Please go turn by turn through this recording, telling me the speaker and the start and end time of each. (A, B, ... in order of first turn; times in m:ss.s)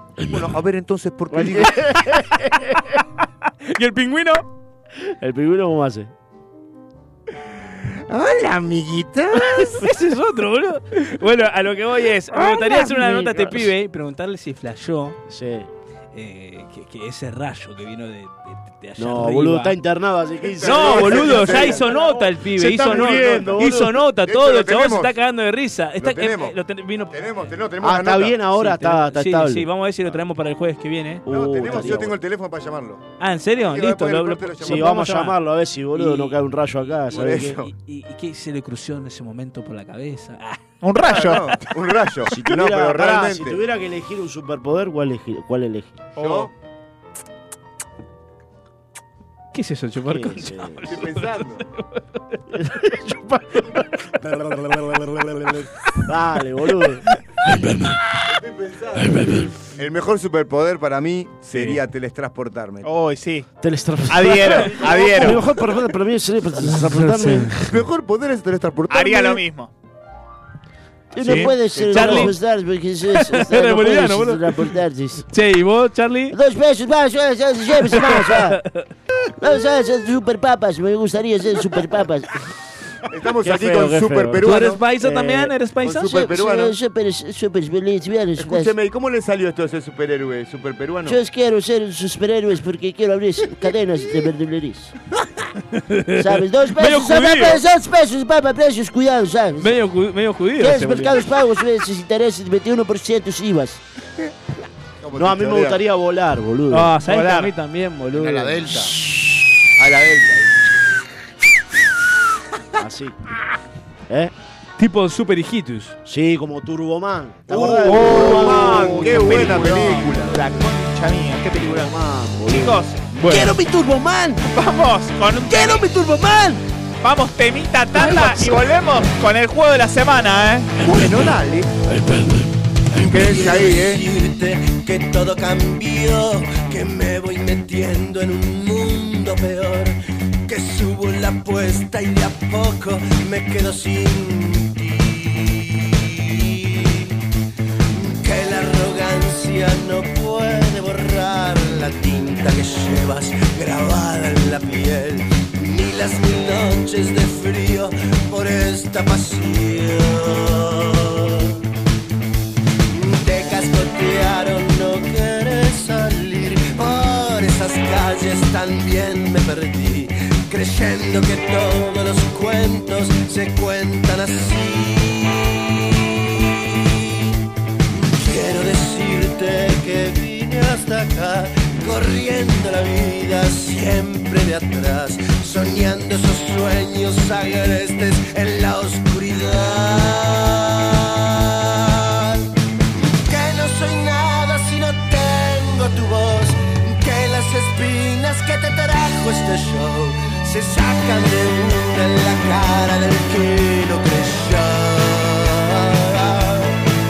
0:00.2-0:01.9 A
0:01.3-0:02.8 B
0:03.7-0:04.4 C
0:05.1-0:06.1 B
0:08.1-0:09.8 A
0:09.5-0:15.2 C
0:12.5-0:13.7 B
0:15.3-0:15.7 B
0:16.1-0:19.8 C
0:19.0-0:24.0 B
0:20.5-0:22.0 A
0:20.6-0:27.2 C
0:22.6-0:25.2 A
0:26.0-0:26.6 A
0:27.1-0:28.4 A
0:27.8-0:29.7 B
0:28.5-0:32.0 C
0:31.2-0:32.2 B
0:31.3-0:33.0 A
0:33.2-0:35.4 C
0:33.6-0:35.0 A
0:34.6-0:37.6 B
0:35.9-0:36.4 C
0:37.1-0:40.6 C
0:37.1-0:37.7 A
0:40.8-0:41.5 D
0:41.0-0:43.6 A
0:42.3-0:46.1 B
0:46.2-0:46.5 D
0:46.2-0:46.5 A
0:49.5-0:52.4 C
0:50.1-0:50.8 B
0:50.8-0:51.6 A
0:52.5-0:57.0 B
0:58.2-1:02.9 A
1:02.8-1:03.5 D
1:03.6-1:07.6 B
1:04.1-1:05.4 D
1:04.8-1:05.4 A
1:06.7-1:07.5 C
1:07.6-1:09.4 A
1:08.9-1:09.7 D
1:11.1-1:15.2 B
1:11.2-1:12.4 C
1:11.3-1:12.3 A
1:13.2-1:14.7 C
1:15.3-1:16.4 C
1:16.3-1:18.6 B
1:17.9-1:18.8 C
1:19.4-1:22.3 B
1:23.1-1:24.8 A
1:23.4-1:28.7 B
1:24.4-1:26.3 C
1:26.1-1:26.8 A
1:28.4-1:31.2 A
1:31.0-1:34.9 B
1:35.7-1:37.6 C
1:36.2-1:39.8 B
1:39.6-1:41.2 C
1:40.6-1:43.8 B
1:45.0-1:45.8 A
1:45.1-1:46.9 B
1:46.7-1:48.7 C
1:47.1-1:47.5 D
1:48.2-1:48.9 A
1:49.8-1:50.5 A
1:52.8-1:53.2 B
1:54.1-1:54.3 B
1:54.8-1:56.0 C
1:56.0-1:59.7 B
1:57.5-2:00.4 A
1:57.8-2:03.1 D
2:01.8-2:04.4 B
2:03.1-2:03.6 C
2:04.5-2:05.9 D
2:05.5-2:06.6 B
2:07.0-2:10.8 D
2:10.8-2:11.7 A
2:13.0-2:14.0 A
2:13.0-2:19.9 E
2:20.5-2:27.1 E
2:27.9-2:41.5 E
2:42.9-2:55.6 E
2:57.9-3:12.4 E
3:13.0-3:26.8 E